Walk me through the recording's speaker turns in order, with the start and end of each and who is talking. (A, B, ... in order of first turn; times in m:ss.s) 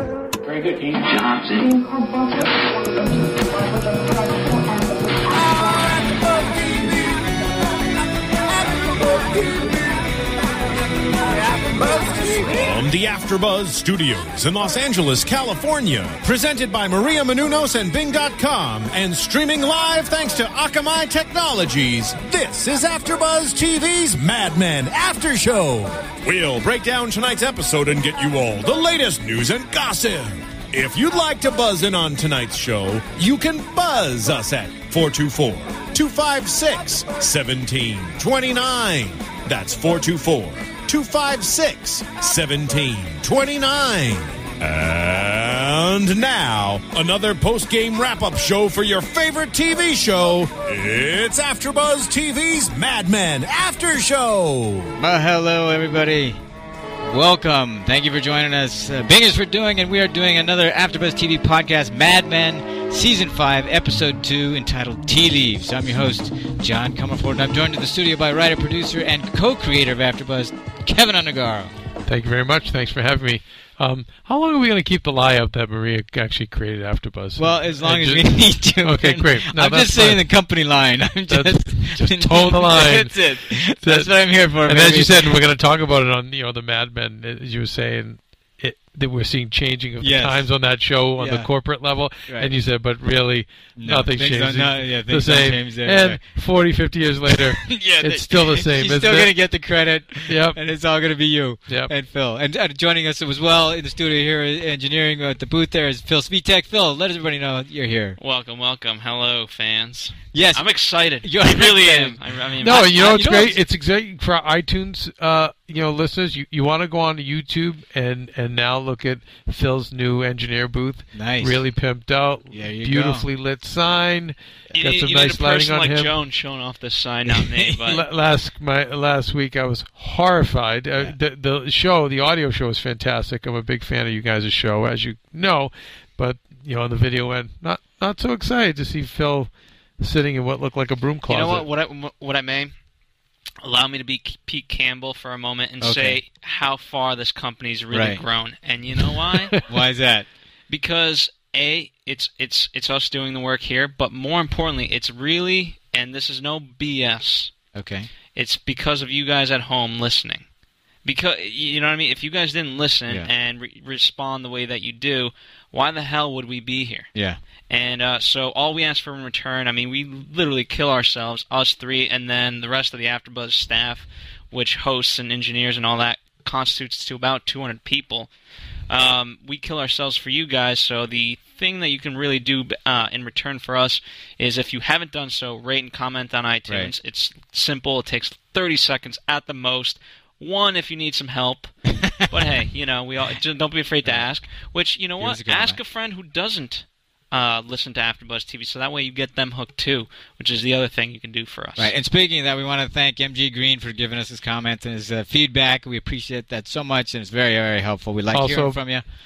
0:00.4-0:01.8 A
0:11.8-0:54.9 B
0:55.0-0:56.4 C
0:57.0-1:11.7 C
1:12.0-1:20.3 D
1:17.4-1:25.4 C
1:21.3-1:24.1 D
1:24.6-1:39.3 D
1:30.0-1:30.5 C
1:31.2-1:31.5 C
1:33.8-1:36.2 C
1:37.3-1:48.2 C
1:40.3-1:40.6 D
1:48.2-1:53.2 A
1:50.3-1:50.6 C
1:51.2-1:53.6 C
1:52.6-2:06.1 D
2:01.1-2:01.6 C
2:02.5-2:03.3 C
2:04.7-2:08.0 A
2:07.2-2:07.8 C
2:07.8-2:21.7 D
2:21.3-2:22.7 A
2:23.6-2:29.5 A
2:25.8-2:26.2 C
2:27.9-2:28.2 C
2:29.6-2:30.3 C
2:30.7-2:37.5 A
2:37.7-2:38.1 C
2:38.3-2:40.4 A
2:41.0-2:47.1 A
2:47.7-2:58.3 A
2:58.9-3:11.7 A
3:06.7-3:06.9 C
3:11.9-3:12.3 C
3:12.3-3:21.9 A
3:15.2-3:15.8 C
3:21.8-3:29.0 C
3:28.3-3:28.8 D